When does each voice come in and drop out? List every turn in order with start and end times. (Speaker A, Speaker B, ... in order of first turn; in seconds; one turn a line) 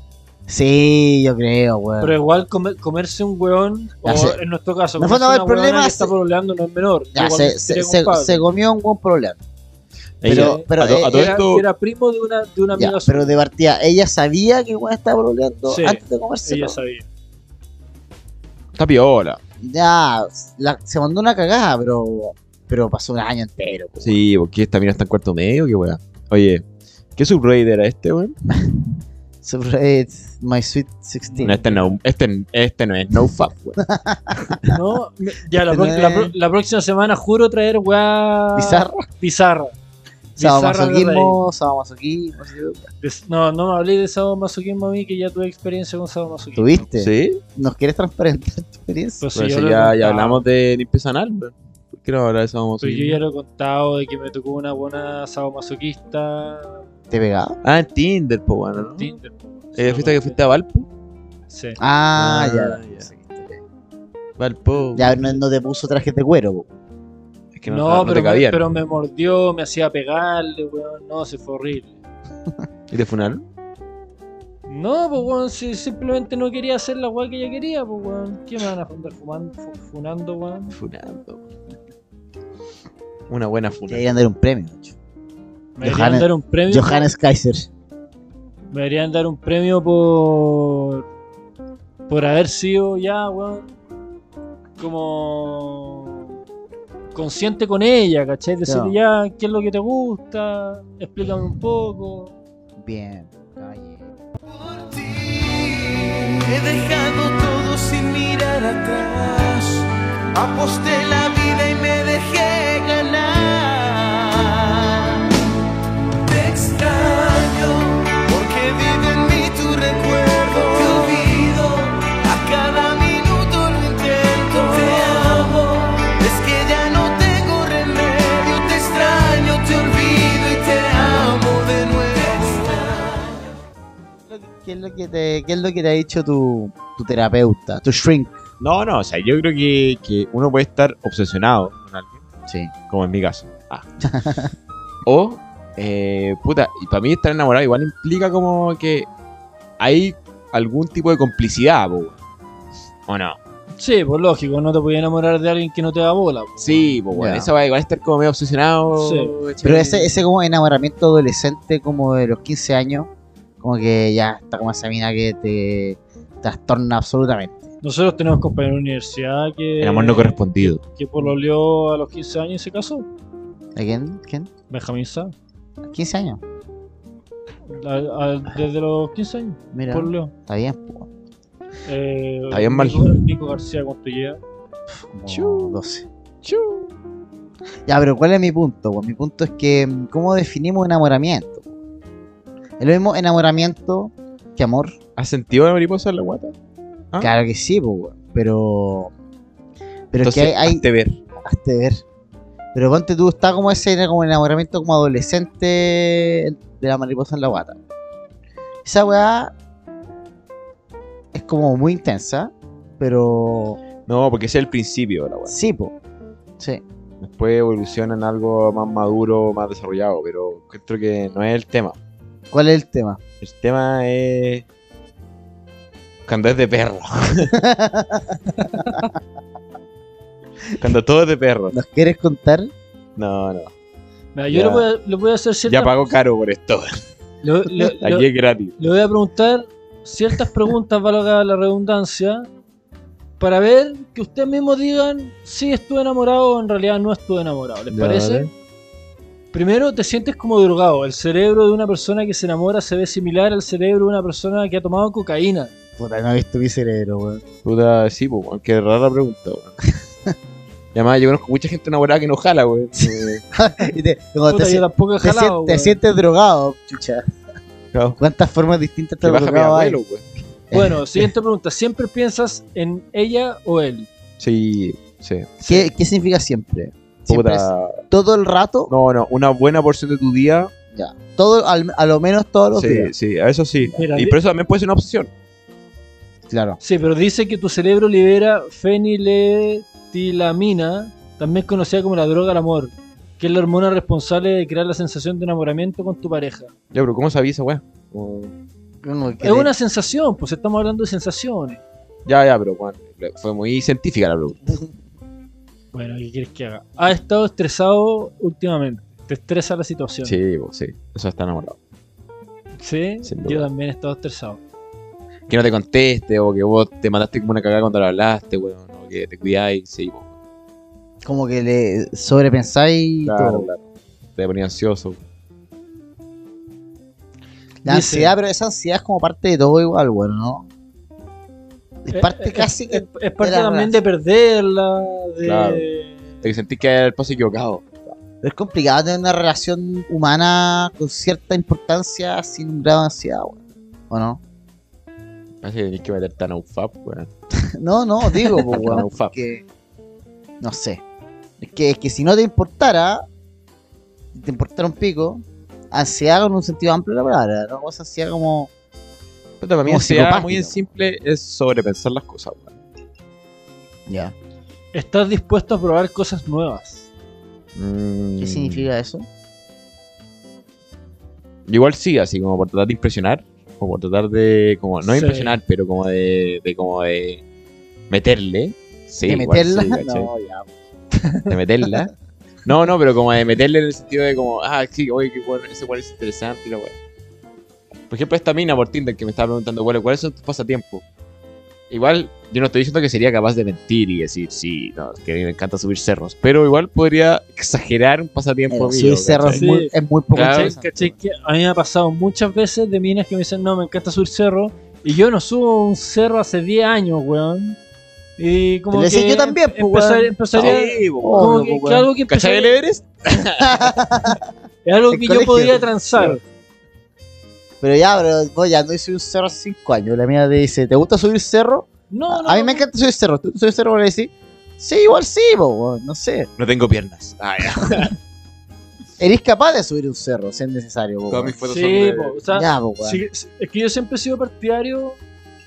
Speaker A: 0.5-2.1
Speaker B: 2.0-8.4
Speaker A: 4.0-4.4
Speaker A: 5.0-6.1
Speaker A: 7.2-9.4
Speaker C: 10.2-11.7
Speaker A: 10.2-11.4
Speaker B: 10.2-13.3
Speaker A: 12.8-16.8
Speaker B: 15.7-17.1
Speaker C: 18.8-19.4
Speaker A: 19.6-24.2
Speaker C: 24.0-26.6
Speaker C: 27.2-28.4
Speaker A: 28.5-28.8
Speaker A: 29.4-31.6
Speaker B: 31.3-31.9
Speaker C: 31.4-33.8
Speaker A: 33.8-34.6
Speaker B: 34.7-39.8
Speaker A: 35.6-36.3
Speaker A: 38.5-39.0
Speaker B: 40.4-41.4
Speaker A: 40.4-42.9
Speaker B: 43.0-46.9
Speaker A: 46.5-49.2
Speaker C: 47.0-47.4
Speaker B: 49.2-50.5
Speaker C: 49.4-53.2
Speaker B: 52.8-56.8
Speaker A: 57.1-57.6
Speaker C: 57.6-59.1
Speaker B: 58.8-60.4
Speaker C: 59.8-60.9
Speaker B: 61.5-61.8
Speaker A: 61.8-62.9
Speaker C: 62.2-63.6
Speaker C: 64.4-65.3
Speaker A: 65.0-66.7
Speaker C: 67.5-68.6
Speaker B: 67.7-72.0
Speaker C: 72.9-73.4
Speaker B: 74.7-80.8
Speaker C: 80.7-81.4
Speaker C: 83.3-84.1
Speaker A: 83.9-85.0
Speaker B: 85.8-87.1
Speaker A: 85.8-87.7
Speaker B: 88.7-91.0
Speaker B: 92.1-93.7
Speaker B: 94.8-96.2
Speaker B: 97.1-102.3
Speaker A: 98.7-99.0
Speaker A: 102.8-104.1
Speaker D: 104.5-115.4
Speaker D: 116.2-133.4
Speaker A: 134.3-138.4
Speaker C: 138.6-142.2
Speaker C: 142.9-143.8
Speaker A: 144.0-144.5
Speaker C: 145.1-149.1
Speaker C: 149.8-152.2
Speaker C: 153.1-153.4
Speaker B: 153.8-157.0
Speaker C: 156.6-160.2
Speaker A: 157.1-157.5
Speaker B: 158.9-159.3
Speaker A: 159.6-163.1
Speaker A: 163.6-167.7
Speaker B: 167.8-173.1
Speaker C: 169.8-170.8
Speaker A: 173.8-174.5
Speaker B: 174.7-175.3
Speaker A: 175.9-176.4
Speaker B: 177.7-180.3
Speaker A: 179.7-181.1
Speaker B: 181.9-184.4
Speaker C: 182.5-183.2
Speaker A: 184.9-186.1
Speaker C: 185.3-185.8
Speaker C: 186.4-186.9
Speaker A: 187.9-191.7
Speaker A: 192.8-195.0
Speaker C: 195.2-196.5
Speaker A: 197.2-199.1
Speaker A: 200.1-200.8
Speaker C: 200.2-201.2
Speaker A: 201.4-202.0
Speaker A: 202.7-207.8
Speaker A: 208.8-209.5
Speaker A: 211.3-213.8
Speaker C: 214.1-215.6
Speaker A: 215.5-215.9
Speaker C: 217.2-222.0
Speaker A: 222.5-223.2
Speaker C: 223.4-224.7
Speaker C: 226.3-227.6
Speaker A: 227.6-228.4
Speaker B: 228.6-229.1
Speaker C: 230.8-231.8
Speaker A: 231.7-232.7
Speaker C: 233.2-233.7
Speaker B: 234.3-236.1
Speaker C: 234.5-234.9
Speaker C: 235.7-237.0
Speaker B: 237.4-242.5
Speaker C: 238.0-238.8
Speaker B: 243.4-248.5
Speaker C: 247.9-248.5
Speaker B: 249.5-255.7
Speaker A: 256.0-257.4
Speaker C: 257.6-259.7
Speaker C: 260.9-263.4
Speaker A: 263.5-267.2
Speaker B: 264.5-266.0
Speaker C: 267.9-268.2
Speaker A: 268.2-270.0
Speaker C: 269.2-270.2
Speaker B: 270.7-274.1
Speaker C: 274.4-275.6
Speaker A: 275.6-278.9
Speaker C: 277.3-278.0
Speaker C: 278.9-280.7
Speaker A: 280.9-283.1
Speaker C: 282.7-285.3
Speaker B: 283.9-284.4
Speaker A: 286.5-286.8
Speaker B: 286.8-296.7
Speaker C: 296.9-298.5
Speaker A: 299.0-299.7
Speaker B: 299.4-301.8
Speaker C: 302.3-304.8
Speaker B: 305.9-310.4
Speaker C: 310.2-311.8
Speaker B: 312.8-314.6
Speaker C: 313.2-313.7
Speaker C: 315.5-320.3
Speaker A: 321.2-323.7
Speaker C: 323.2-323.8
Speaker C: 324.4-325.2
Speaker A: 327.8-330.7
Speaker B: 327.9-328.4
Speaker A: 332.0-334.0
Speaker B: 332.1-336.4
Speaker C: 335.4-335.9
Speaker C: 336.4-338.1
Speaker A: 338.4-343.6
Speaker A: 344.1-344.4
Speaker C: 345.6-347.3
Speaker A: 347.6-349.6
Speaker C: 348.4-349.3
Speaker A: 350.6-351.0
Speaker A: 351.6-353.2
Speaker A: 354.3-358.7
Speaker C: 359.6-362.7
Speaker A: 359.9-360.8
Speaker A: 364.1-364.4
Speaker B: 364.9-367.1
Speaker C: 367.8-368.9
Speaker A: 368.4-369.3
Speaker C: 371.7-377.4
Speaker B: 375.1-375.6
Speaker C: 378.1-380.3
Speaker A: 379.2-380.7
Speaker B: 381.2-381.5
Speaker C: 381.5-382.1
Speaker C: 382.6-387.0
Speaker C: 388.1-391.0
Speaker C: 391.9-399.7
Speaker A: 398.7-401.1
Speaker B: 399.5-407.8
Speaker C: 400.3-400.8
Speaker B: 408.4-412.8
Speaker A: 408.9-411.7
Speaker C: 410.6-414.0
Speaker A: 413.6-414.4
Speaker B: 414.9-416.4
Speaker A: 415.1-416.4
Speaker A: 417.8-426.5
Speaker B: 422.1-422.9
Speaker C: 426.6-428.2
Speaker A: 429.2-431.6
Speaker C: 431.3-432.4
Speaker B: 431.6-435.2
Speaker A: 432.5-433.2